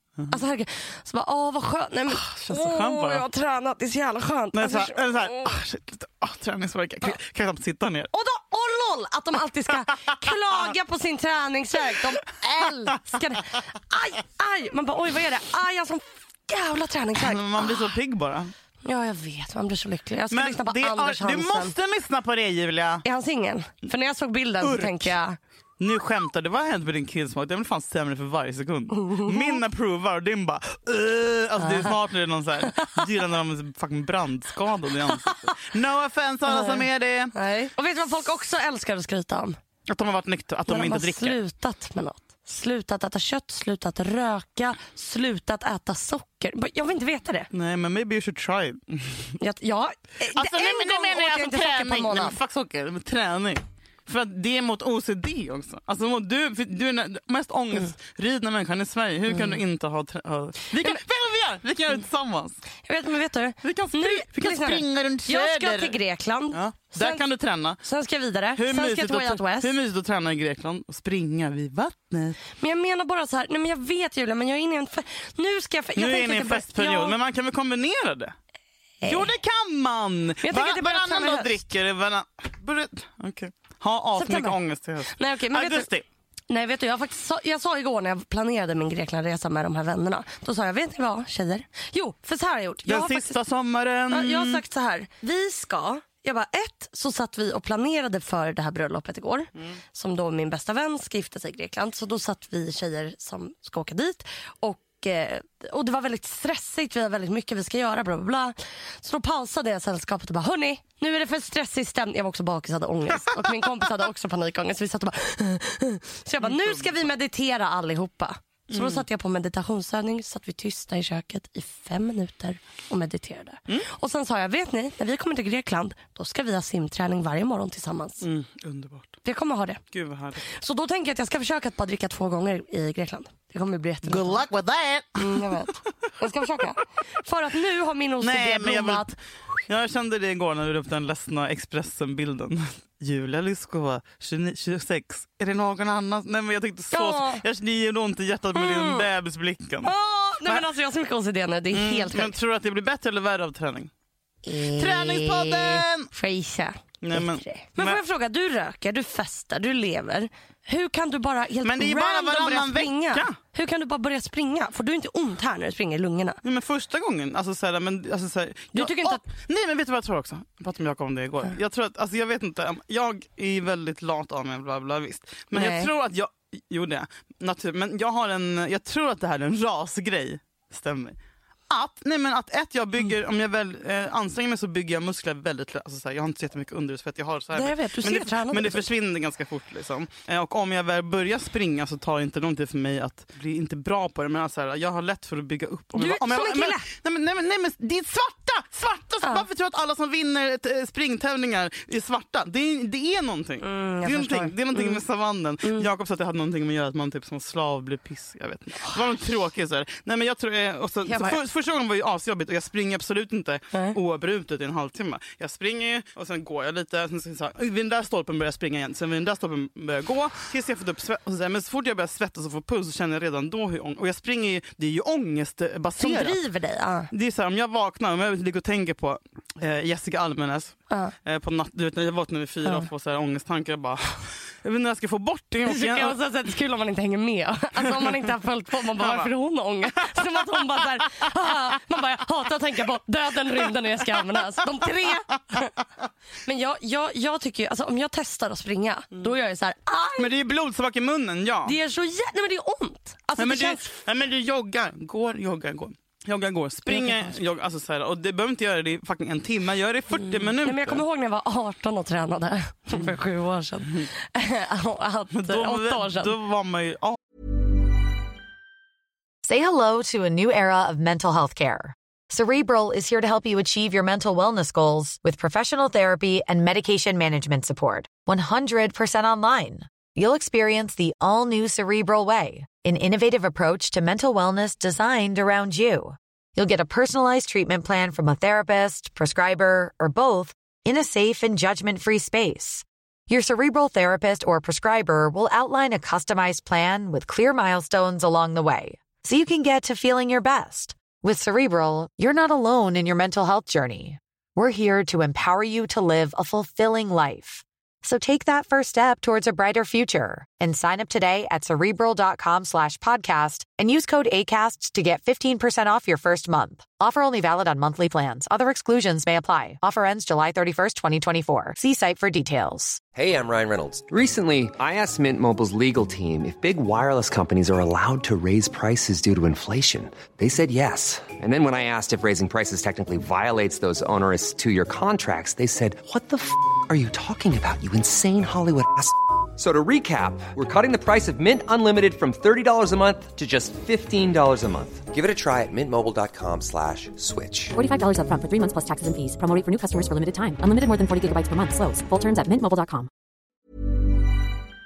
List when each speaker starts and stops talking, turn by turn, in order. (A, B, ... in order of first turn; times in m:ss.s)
0:00.3-0:05.5 A
0:02.1-0:03.2 B
0:04.5-0:08.1 B
0:08.1-0:17.9 A
0:17.2-0:18.5 B
0:18.8-0:21.7 A
0:20.3-0:23.0 B
0:23.0-0:25.4 A
0:24.6-0:25.1 B
0:25.8-0:37.3 B
0:29.0-0:29.6 A
0:31.6-0:32.0 A
0:36.5-0:39.6 A
0:39.9-0:41.4 B
0:40.7-0:47.5 A
0:47.5-0:49.4 B
0:49.4-0:52.4 A
0:50.4-1:02.6 B
0:59.3-0:59.6 A
1:00.8-1:01.0 A
1:02.9-1:07.2 A
1:03.6-1:06.0 B
1:06.5-1:07.8 B
1:07.8-1:09.7 A
1:08.6-1:12.4 B
1:12.6-1:17.2 A
1:16.0-1:18.3 B
1:19.0-1:19.3 A
1:19.0-1:26.0 B
1:20.4-1:21.6 A
1:24.2-1:24.6 A
1:25.1-1:25.9 A
1:26.5-1:33.3 A
1:32.9-1:34.6 B
1:34.1-2:08.2 A
1:56.4-1:57.1 B
1:58.7-1:59.0 B
2:08.2-2:09.2 B
2:09.2-2:09.8 A
2:09.9-2:10.4 B
2:10.4-2:14.4 A
2:14.0-2:15.4 B
2:15.2-2:19.1 A
2:18.2-2:29.9 B
2:26.9-2:27.4 A
2:28.6-2:29.1 A
2:29.8-2:32.4 A
2:31.7-2:33.9 B
2:34.4-2:46.4 A
2:34.6-2:36.1 B
2:37.0-2:38.0 B
2:41.6-2:43.4 B
2:46.4-3:01.2 B
2:48.7-2:49.2 A
2:55.5-2:55.9 A
3:01.7-3:46.4 B
3:07.5-3:08.9 A
3:16.0-3:16.9 A
3:23.6-3:25.0 A
3:25.6-3:25.9 A
3:31.1-3:31.4 A
3:46.0-3:47.1 A
3:47.1-3:56.2 B
3:50.9-3:51.2 A
3:55.6-4:05.7 A
3:59.0-3:59.3 B
4:00.6-4:00.8 B
4:06.5-4:10.3 A
4:10.2-4:11.8 B
4:11.6-4:13.9 A
4:13.4-4:21.0 B
4:16.9-4:17.4 A
4:20.1-4:26.4 A
4:25.3-4:27.2 B
4:29.4-5:23.0 C
5:23.2-5:47.8 D
5:47.8-5:53.1 E